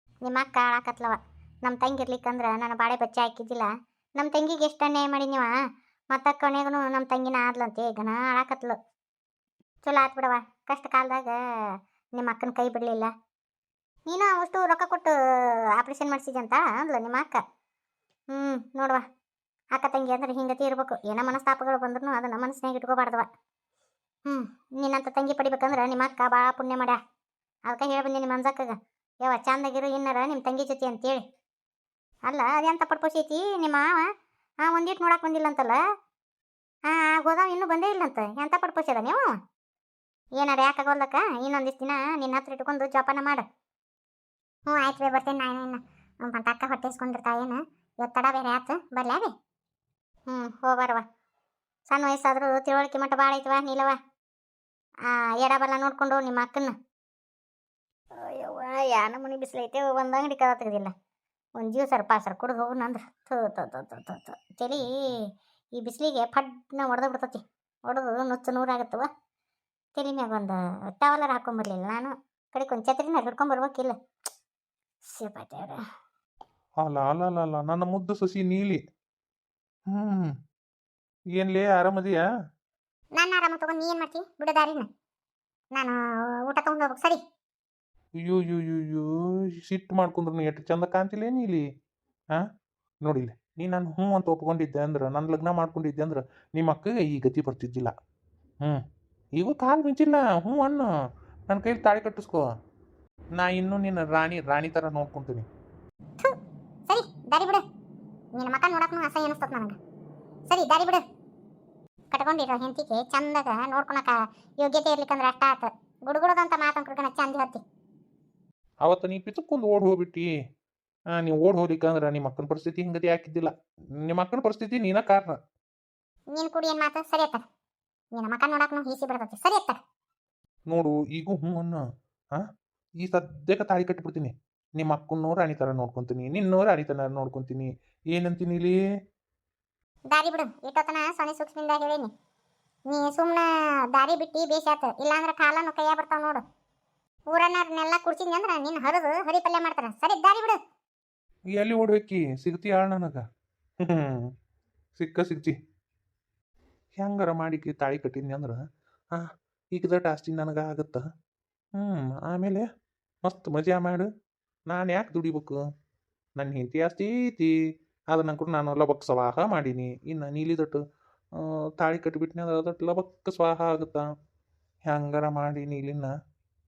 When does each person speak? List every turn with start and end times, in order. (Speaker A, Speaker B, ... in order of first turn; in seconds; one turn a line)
Speaker A: 0.2-5.5
Speaker A: 6.1-8.8
Speaker A: 9.8-11.4
Speaker A: 12.2-13.1
Speaker A: 14.1-17.4
Speaker A: 18.3-19.0
Speaker A: 19.7-23.3
Speaker A: 24.2-27.0
Speaker A: 27.7-31.2
Speaker A: 32.3-34.1
Speaker A: 34.6-35.8
Speaker A: 36.9-39.3
Speaker A: 40.4-43.4
Speaker A: 44.7-49.3
Speaker A: 50.3-51.0
Speaker A: 51.9-54.0
Speaker A: 55.1-56.7
Speaker A: 58.2-60.9
Speaker A: 61.6-69.1
Speaker A: 70.0-74.0
Speaker A: 75.0-75.8
Speaker B: 76.8-78.8
Speaker B: 79.9-80.3
Speaker B: 81.3-82.2
Speaker A: 83.2-84.9
Speaker A: 85.7-87.2
Speaker B: 88.2-91.6
Speaker B: 93.0-97.9
Speaker B: 99.4-100.9
Speaker B: 101.5-102.5
Speaker B: 103.4-105.5
Speaker A: 106.9-107.6
Speaker A: 108.3-109.8
Speaker A: 110.5-111.0
Speaker A: 112.1-117.6
Speaker B: 118.8-120.3
Speaker B: 121.1-123.5
Speaker B: 124.0-125.4
Speaker A: 126.3-127.4
Speaker A: 128.1-129.8
Speaker B: 130.7-132.4
Speaker B: 133.0-138.8
Speaker A: 140.1-142.1
Speaker A: 142.9-146.4
Speaker A: 147.3-150.6
Speaker B: 151.5-153.2
Speaker B: 153.8-154.3
Speaker B: 155.0-155.6
Speaker B: 157.0-158.6
Speaker B: 159.1-161.0
Speaker B: 161.8-162.7
Speaker B: 163.2-164.1
Speaker B: 164.7-165.6
Speaker B: 166.4-167.5
Speaker B: 168.1-170.8
Speaker B: 171.4-174.1
Speaker B: 174.9-176.1